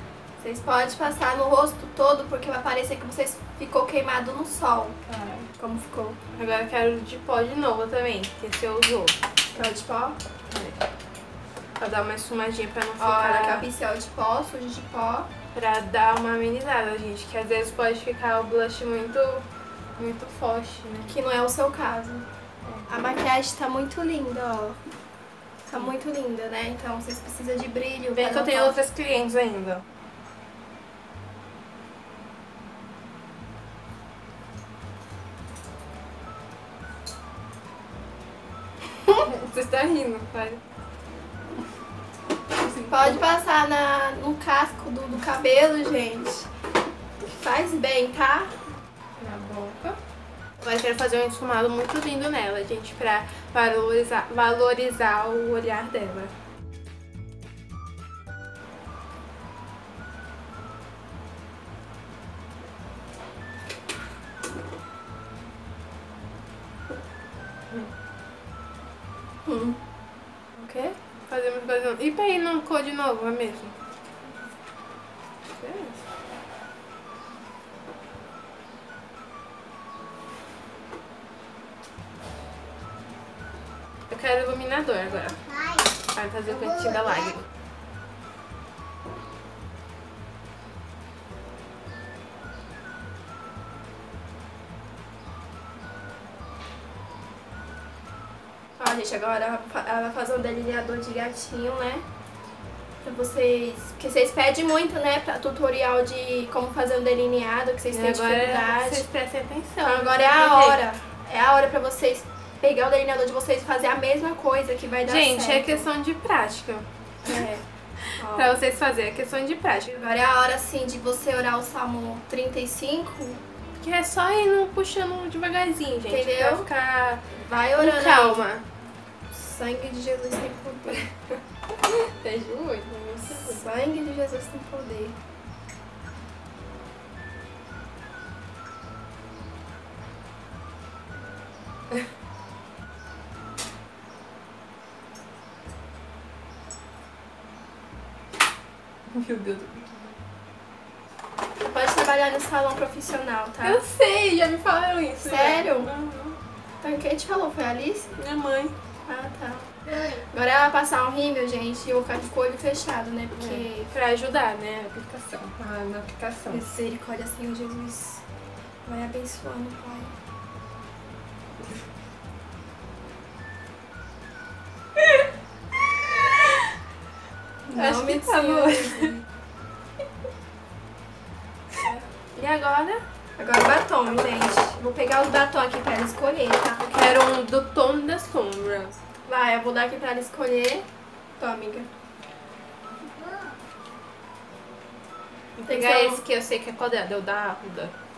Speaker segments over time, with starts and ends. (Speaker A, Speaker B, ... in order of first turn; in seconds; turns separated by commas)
Speaker A: 0.4-5.0, Speaker B: 5.1-5.5, Speaker A: 5.6-6.2, Speaker B: 6.3-9.2, Speaker A: 9.5-10.2, Speaker B: 10.5-10.8, Speaker B: 11.8-13.7, Speaker A: 13.0-15.3, Speaker B: 15.5-19.4, Speaker B: 20.0-21.1, Speaker A: 21.1-22.2, Speaker A: 22.9-24.8, Speaker A: 25.7-28.8, Speaker B: 28.1-29.8, Speaker B: 39.2-40.6, Speaker B: 42.6-43.2, Speaker A: 42.9-46.5, Speaker A: 47.3-48.5, Speaker B: 49.2-50.0, Speaker B: 50.6-56.3, Speaker A: 69.5-69.8, Speaker A: 70.6-70.9, Speaker B: 71.3-73.8, Speaker B: 75.6-76.0, Speaker B: 84.1-85.4, Speaker B: 86.0-87.5, Speaker A: 98.8-102.0, Speaker A: 103.0-109.0, Speaker B: 107.9-110.8, Speaker A: 109.8-115.9, Speaker B: 115.0-116.9, Speaker A: 117.2-117.6, Speaker B: 118.1-120.1, Speaker A: 118.2-118.7, Speaker A: 120.0-123.4, Speaker B: 123.8-128.6, Speaker A: 126.1-126.7, Speaker A: 127.3-128.4, Speaker A: 129.3-131.1, Speaker B: 131.9-133.6, Speaker A: 133.3-135.2, Speaker B: 149.1-150.2, Speaker A: 151.6-153.8, Speaker B: 153.6-156.4, Speaker A: 155.2-155.9, Speaker A: 156.8-158.1, Speaker B: 158.2-158.7, Speaker A: 159.1-163.9, Speaker B: 163.3-166.7, Speaker A: 166.5-168.2, Speaker A: 168.8-170.1, Speaker B: 176.1-176.4, Speaker A: 177.6-179.2, Speaker B: 177.7-179.2, Speaker B: 182.3-183.0, Speaker A: 183.4-186.8, Speaker B: 186.8-188.9, Speaker A: 189.2-190.8, Speaker A: 191.4-191.9, Speaker B: 195.6-197.9, Speaker A: 195.7-196.2